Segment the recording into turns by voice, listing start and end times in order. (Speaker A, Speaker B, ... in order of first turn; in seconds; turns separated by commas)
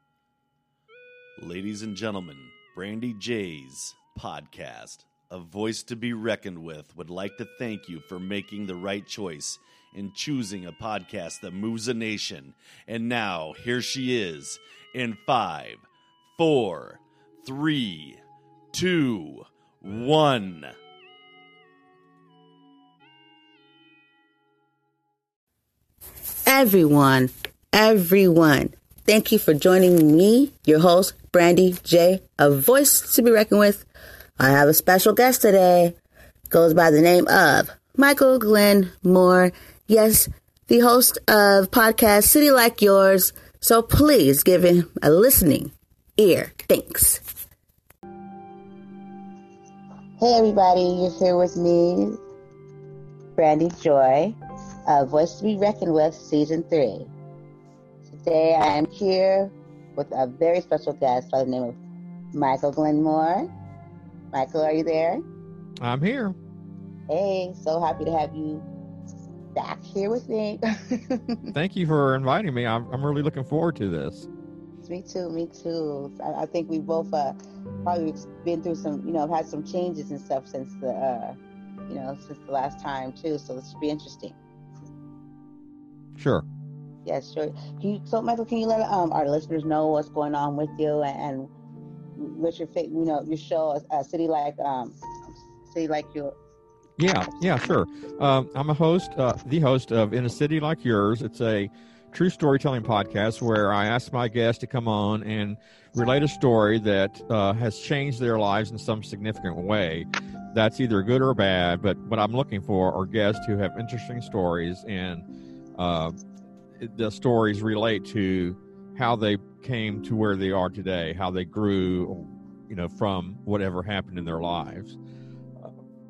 Speaker A: 1.4-18.2, Speaker A: 18.7-20.7, Speaker B: 26.5-33.9, Speaker B: 34.4-36.0, Speaker B: 36.5-47.2, Speaker B: 50.2-52.2, Speaker B: 53.4-57.1, Speaker B: 58.1-61.8, Speaker B: 62.3-63.5, Speaker B: 64.3-65.2, Speaker C: 65.8-66.3, Speaker B: 67.1-68.7, Speaker B: 69.5-71.5, Speaker C: 71.5-74.3, Speaker B: 74.8-84.4, Speaker C: 86.2-86.4, Speaker B: 87.0-91.5, Speaker B: 92.2-96.3, Speaker C: 97.0-115.2, Speaker C: 115.8-116.2, Speaker C: 116.7-125.0